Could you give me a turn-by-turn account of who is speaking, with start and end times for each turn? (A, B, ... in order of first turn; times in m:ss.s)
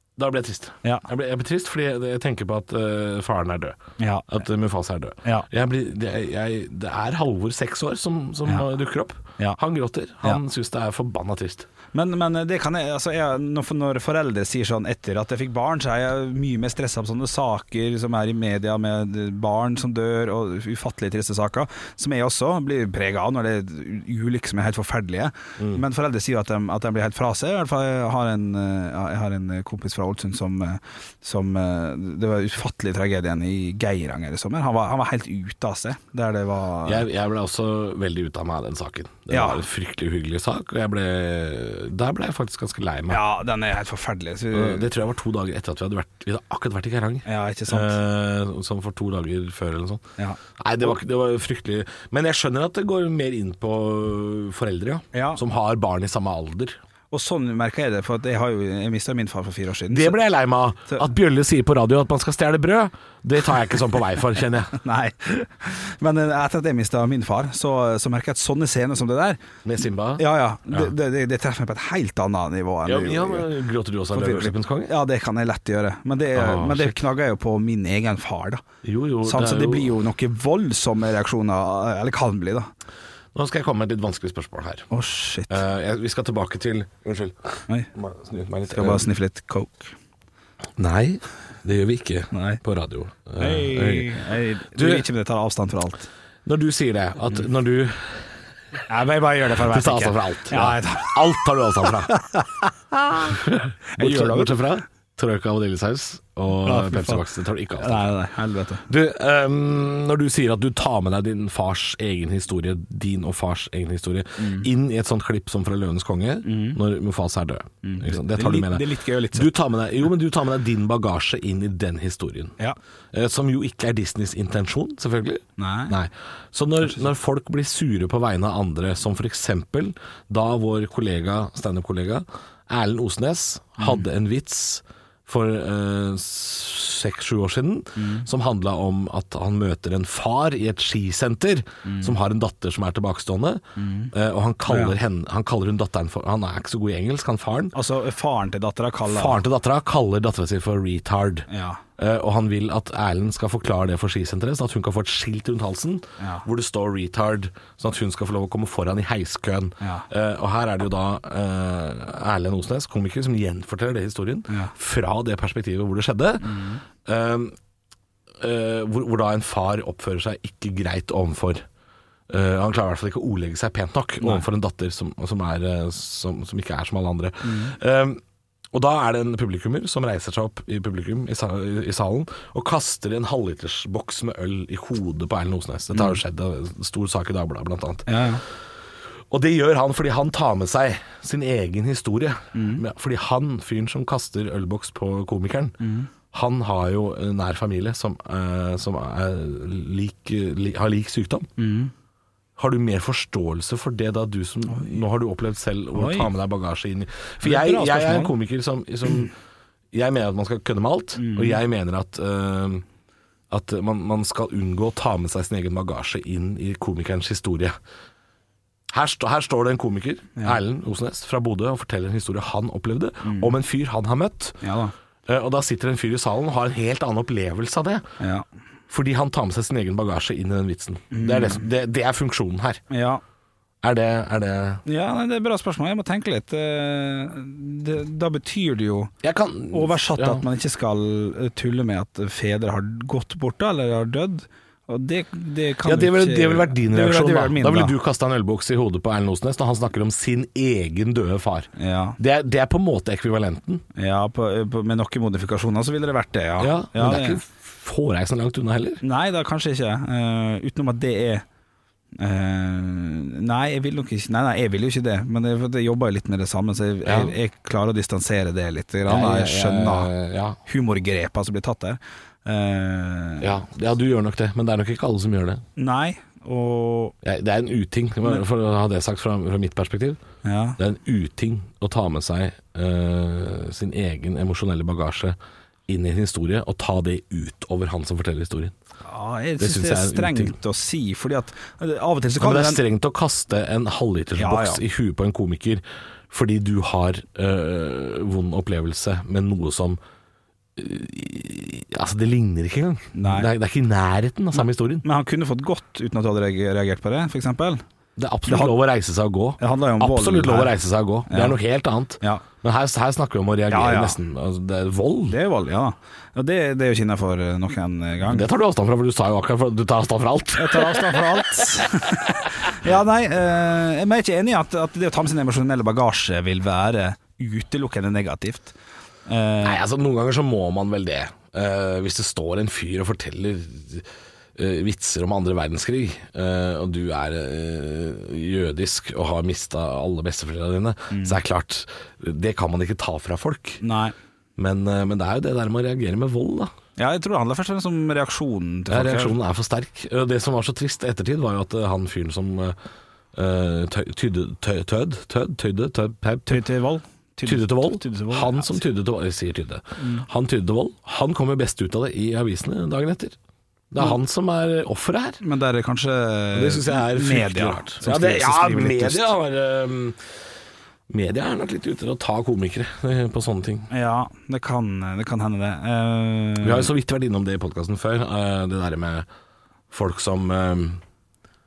0:00.2-0:11.7 A
0:04.0-0:04.3 B
0:11.9-0:37.0 B
0:36.8-0:43.2 A
0:39.3-0:39.6 B
0:43.1-0:44.9 B
0:44.5-0:50.0 A
0:47.3-0:48.0 B
0:50.2-0:50.9 B
0:50.6-0:56.8 A
0:55.1-0:55.4 B
0:57.1-1:00.2 B
0:59.9-1:04.8 A
1:04.7-1:09.4 B
1:09.6-1:10.9 A
1:10.2-1:13.5 B
1:12.8-1:14.9 A
1:14.1-1:18.6 B
1:16.3-1:17.0 A
1:18.8-1:19.9 A
1:19.2-1:22.7 B
1:23.3-1:24.9 A
1:24.9-1:25.6 B
1:25.5-1:29.0 A
1:28.7-1:29.9 B
1:30.8-1:34.2 A
1:32.3-1:32.6 B
1:33.4-1:36.1 B
1:34.7-1:35.1 A
1:36.4-1:38.4 A
1:38.9-1:41.2 B
1:39.5-1:42.1 A
1:41.8-1:44.6 B
1:43.3-1:48.1 A
1:46.6-1:47.2 B
1:47.8-1:48.8 B
1:48.9-2:02.6 A
1:54.4-1:54.7 B
1:56.4-1:56.8 B
1:57.8-1:59.5 B
2:03.1-2:27.8 A
2:05.6-2:05.9 B
2:13.8-2:14.0 B
2:18.0-2:18.3 B
2:21.8-2:22.2 B
2:23.8-2:24.1 B
2:24.7-2:25.0 B
2:27.7-2:29.4 B
2:29.1-2:47.6 A
2:31.5-2:31.8 B
2:36.2-2:36.5 B
2:39.8-2:40.1 B
2:44.5-2:44.7 B
2:46.4-2:46.8 B
2:48.4-2:51.6 A
2:52.3-2:58.2 A
2:57.4-2:57.7 B
2:58.7-3:08.2 A
3:05.9-3:06.2 B
3:08.1-3:08.4 B
3:09.3-3:15.8 A
3:12.6-3:12.8 B
3:15.8-3:16.1 B
3:16.3-3:21.5 A
3:21.6-3:21.9 B
3:22.6-3:29.3 A
3:25.9-3:26.3 B
3:27.4-3:28.4 B
3:29.9-3:32.8 A
3:31.2-3:31.6 B
3:33.5-3:37.8 A
3:38.9-3:44.6 A
3:43.2-3:43.6 B
3:44.6-3:44.9 B
3:45.3-3:48.0 A
3:48.2-3:48.4 B
3:48.9-3:52.8 A
3:51.1-3:51.6 B
3:52.9-3:53.2 B
3:53.8-3:54.8 A
3:54.8-3:59.1 B
3:59.2-4:00.4 A
3:59.7-4:08.0 B
4:05.8-4:13.8 A
4:11.8-4:12.2 B
4:14.0-4:17.4 B
4:16.6-4:19.0 A
4:19.0-4:21.4 B
4:22.2-4:30.1 B
4:27.0-4:27.4 A
4:29.1-4:30.6 A
4:30.7-4:33.5 B
4:33.4-4:35.6 A
4:35.8-4:37.1 B
4:37.2-4:40.2 A
4:40.4-4:40.8 B
4:40.8-4:45.4 A
4:45.9-4:48.7 A
4:49.1-4:52.8 B
4:49.6-4:50.6 A
4:52.4-5:00.0 A
4:54.4-4:54.8 B
5:00.8-5:05.0 A
5:03.1-5:03.5 B
5:04.6-5:07.8 B
5:08.2-5:15.4 A
5:08.5-5:08.8 B
5:09.6-5:10.8 B
5:11.3-5:11.6 B
5:13.7-5:14.2 B
5:15.3-5:18.5 B
5:18.3-5:21.6 A
5:20.6-5:28.8 B
5:29.3-5:29.8 B
5:29.6-5:43.8 A
5:41.1-5:41.4 B
5:43.8-5:44.1 B
5:44.6-5:46.7 A
5:47.0-5:49.4 B
5:48.9-5:52.8 A
5:53.3-5:56.6 A
5:56.5-5:58.8 B
5:57.4-6:03.4 A
6:00.0-6:00.3 B
6:03.9-6:05.4 A
6:05.4-6:09.3 B
6:06.5-6:10.2 A
6:11.1-6:13.9 A
6:13.9-6:16.9 B
6:16.6-6:19.3 A
6:19.9-6:21.0 A